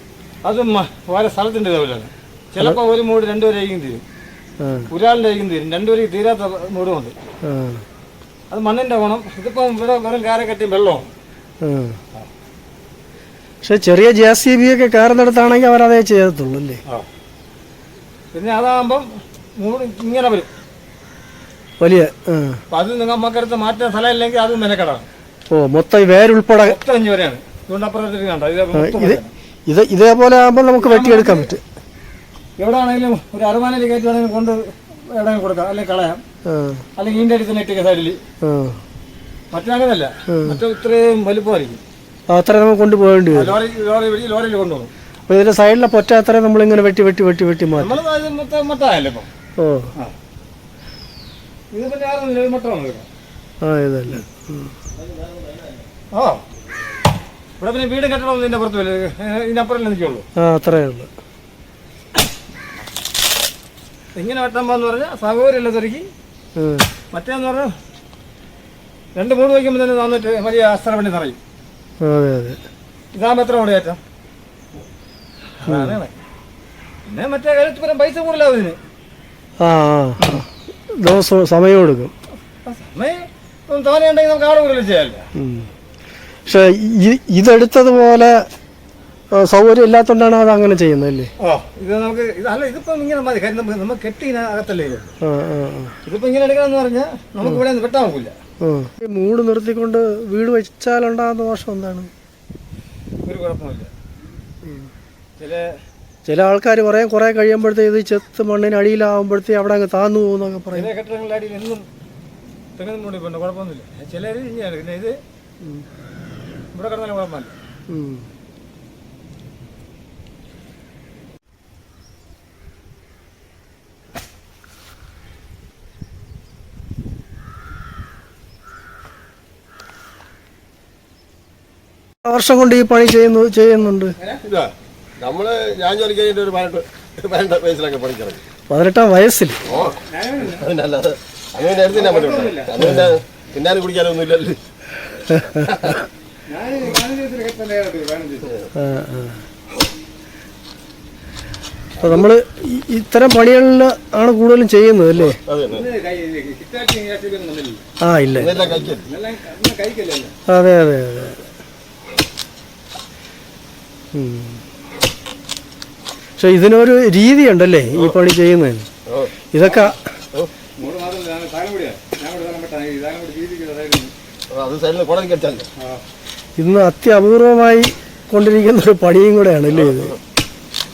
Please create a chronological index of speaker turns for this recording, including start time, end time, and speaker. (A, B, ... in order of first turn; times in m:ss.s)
0:00.4-0:04.0 A
0:04.6-0:04.9 B
0:04.9-0:07.1 A
0:07.4-0:07.8 B
0:08.5-0:11.1 A
0:11.6-0:12.0 B
0:13.6-0:16.8 B
0:18.3-0:20.5 A
0:21.8-0:22.6 B
0:22.7-0:25.1 A
0:25.5-0:26.8 B
0:26.6-0:29.3 A
0:28.7-0:31.6 B
0:30.8-0:31.5 A
0:32.6-0:36.2 A
0:36.4-0:36.8 B
0:37.0-0:38.2 A
0:38.4-0:38.8 B
0:39.5-0:41.8 A
0:40.3-0:40.6 B
0:42.3-0:43.6 B
0:43.3-0:44.9 A
0:45.3-0:48.0 B
0:47.8-0:49.3 A
0:49.6-0:49.9 B
0:51.7-0:53.1 A
0:53.6-0:54.7 B
0:56.1-0:56.4 A
0:57.6-1:00.2 A
1:00.4-1:01.1 B
1:04.1-1:06.1 A
1:06.6-1:06.9 B
1:07.1-1:07.7 A
1:09.1-1:11.4 A
1:12.0-1:12.6 B
1:13.1-1:14.0 A
1:15.6-1:16.0 B
1:15.6-1:16.1 A
1:17.0-1:18.8 A
1:19.6-1:22.1 B
1:22.6-1:25.3 A
1:25.3-1:25.7 B
1:26.4-1:28.4 B
1:29.3-1:31.3 B
1:31.4-1:35.1 A
1:35.2-1:36.0 B
1:36.0-1:38.4 A
1:38.6-1:42.1 B
1:43.2-1:43.9 A
1:44.6-1:44.9 B
1:45.4-1:45.8 A
1:46.2-1:50.9 B
1:50.7-1:51.8 A
1:52.8-1:55.2 A
1:56.7-1:57.5 A
1:57.9-1:58.3 B
2:12.2-2:14.2 B
2:14.2-2:14.7 A
2:15.2-2:18.4 C
2:18.7-2:19.6 B
2:19.7-2:20.0 C
2:19.7-2:20.7 A
2:20.5-2:24.6 C
2:21.9-2:22.7 A
2:22.8-2:23.1 B
2:25.3-2:25.7 B
2:25.5-2:26.0 C
2:26.5-2:28.5 A
2:28.8-2:29.4 B
2:32.0-2:32.3 C
2:32.0-2:35.4 B
2:35.1-2:35.9 C
2:35.7-2:37.8 A
2:38.0-2:38.9 B
2:38.3-2:39.1 C
2:39.0-2:40.3 A
2:40.5-2:41.4 B
2:44.1-2:44.6 B
2:46.4-2:48.9 B
2:49.1-2:49.7 C
2:49.5-2:50.0 B
2:50.8-2:54.1 A
2:54.5-2:55.7 C
2:56.6-3:00.1 B
2:59.7-3:00.2 C